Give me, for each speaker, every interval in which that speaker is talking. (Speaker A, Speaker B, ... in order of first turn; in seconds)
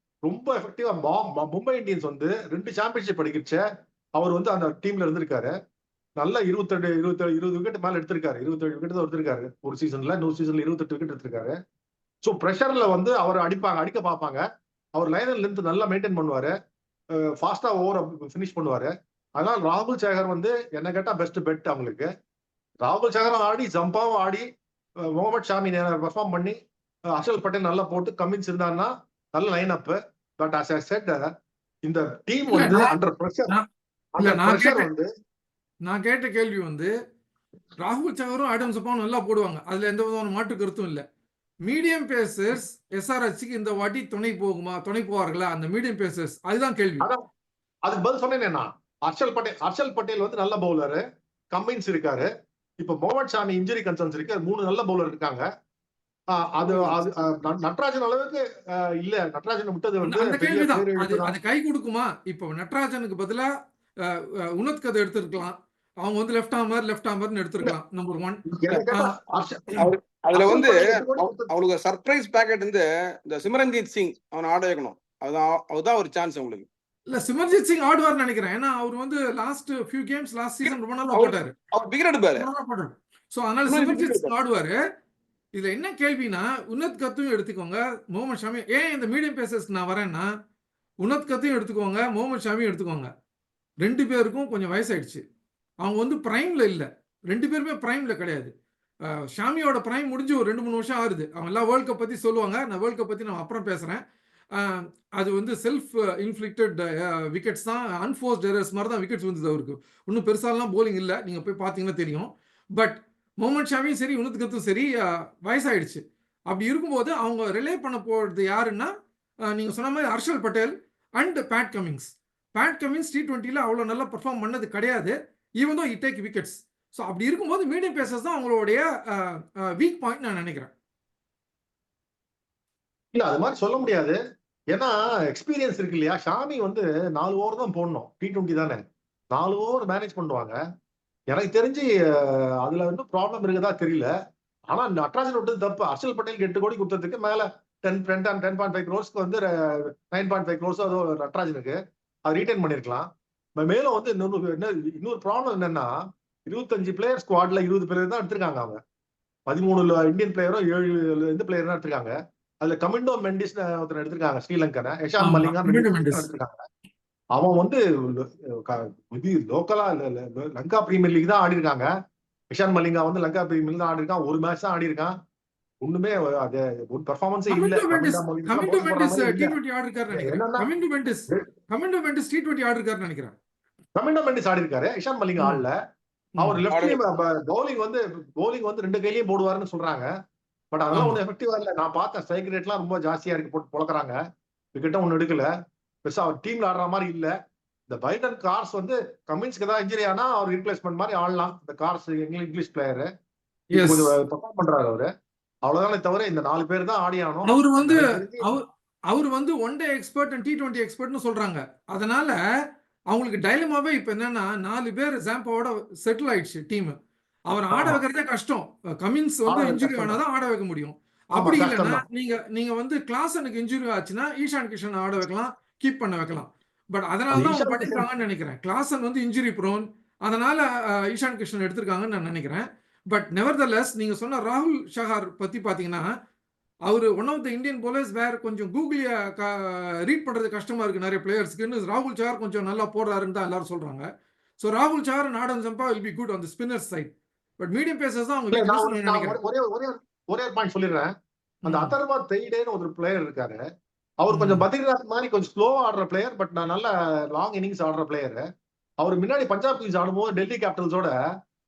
Speaker A: 0.3-3.6, 4.2-5.5, 6.2-11.6, 12.2-14.4, 14.9-16.5, 17.2-22.1, 22.8-24.4, 25.1-26.6, 27.1-31.2, 31.9-33.5, 34.2-35.1, 47.9-51.0, 51.5-52.3, 52.8-55.4, 56.4-61.4, 68.5-71.5, 133.1-134.2, 134.7-138.8, 139.3-140.6, 141.3-144.1, 144.7-155.9, 156.5-158.8, 159.5-166.6, 167.3-171.9, 172.5-175.1, 175.8-179.6, 180.1-180.7, 184.0-185.8, 186.4-190.1, 190.7-194.2, 194.8-195.5, 196.0-197.3, 197.9-203.1, 203.7-205.1, 205.7-208.5, 217.7-218.0, 219.5-220.2, 221.4-222.0, 227.3-228.1, 248.5-251.1, 251.6-253.6, 254.2-258.4, 259.0-261.1
Speaker B: 32.5-32.9, 34.2-34.9, 35.9-36.9, 37.8-41.0, 41.7-47.0, 56.6-57.0, 60.0-63.5, 64.0-69.2, 77.1-81.5, 82.4-84.8, 85.6-90.3, 91.0-93.1, 93.8-95.2, 95.8-98.5, 99.1-104.0, 104.5-118.9, 119.5-130.7, 165.2-166.3, 177.5-183.3, 186.4-186.7, 190.9-191.2, 203.7-204.1, 207.5-212.4, 213.1-216.9, 217.5-236.1, 236.9-244.1, 244.6-249.4, 251.6-251.9, 254.3-254.7
Speaker C: 69.8-76.7, 80.6-82.5, 83.7-84.3, 186.7-187.0